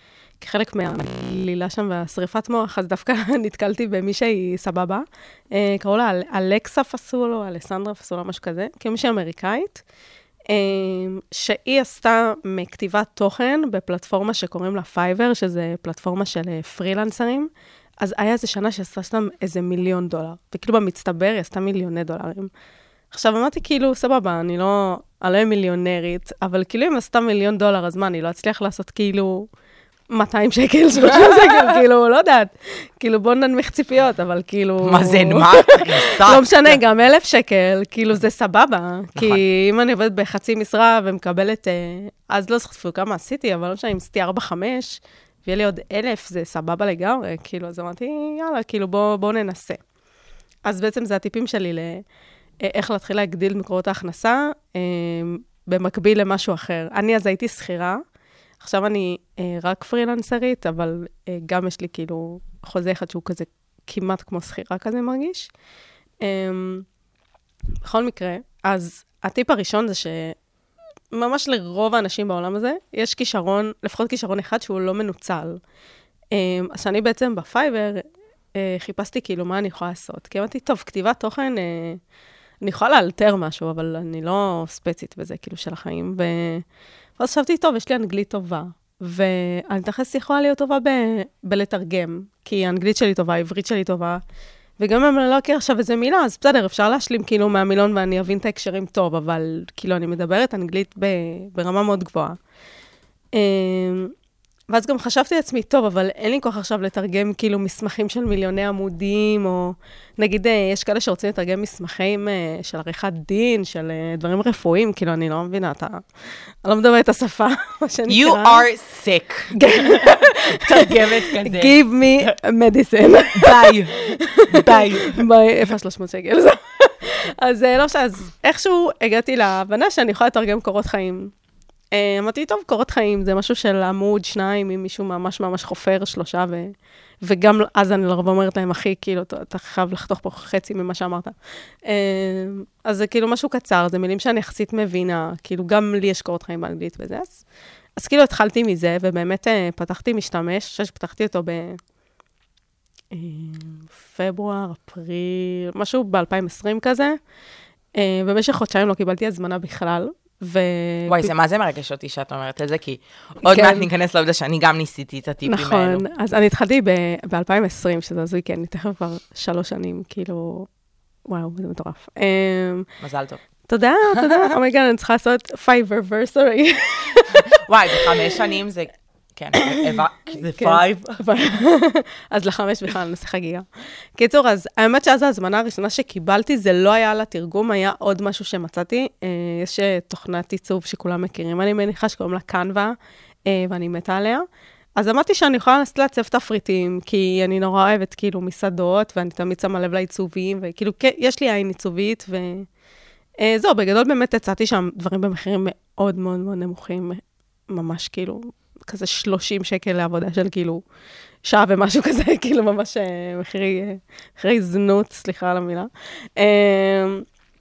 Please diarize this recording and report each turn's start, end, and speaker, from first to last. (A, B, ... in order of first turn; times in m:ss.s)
0:00.4-0:09.8 A
0:10.5-0:17.5 A
0:18.0-0:22.5 A
0:23.1-0:29.5 A
0:30.1-0:49.8 A
0:31.2-0:31.5 B
0:34.8-0:36.8 B
0:39.2-0:39.4 B
0:50.6-0:52.0 A
0:52.6-0:58.0 A
0:58.6-1:05.5 A
1:06.2-1:06.8 A
1:07.8-1:10.3 A
1:11.1-1:15.6 A
1:16.3-1:18.0 A
1:18.6-1:22.0 A
1:22.6-1:26.6 A
1:27.2-1:34.2 A
1:34.8-1:42.4 A
1:43.3-1:44.1 A
1:44.7-1:56.0 A
1:56.6-1:58.6 A
1:58.1-2:02.3 B
1:59.5-2:11.3 A
2:03.3-2:05.2 B
2:11.9-2:21.3 A
2:21.8-2:27.4 A
2:28.0-2:31.8 A
2:33.1-2:37.2 A
2:38.0-2:41.3 A
2:41.1-2:46.0 B
2:43.4-2:43.8 A
2:45.4-2:50.7 A
2:51.3-2:52.9 A
2:53.0-2:53.4 B
2:53.7-2:57.5 A
2:57.5-3:01.2 B
3:00.5-3:03.6 A
3:04.2-3:12.9 A
3:13.5-3:14.4 A
3:15.0-3:22.7 A
3:23.4-3:30.8 A
3:31.4-3:37.2 A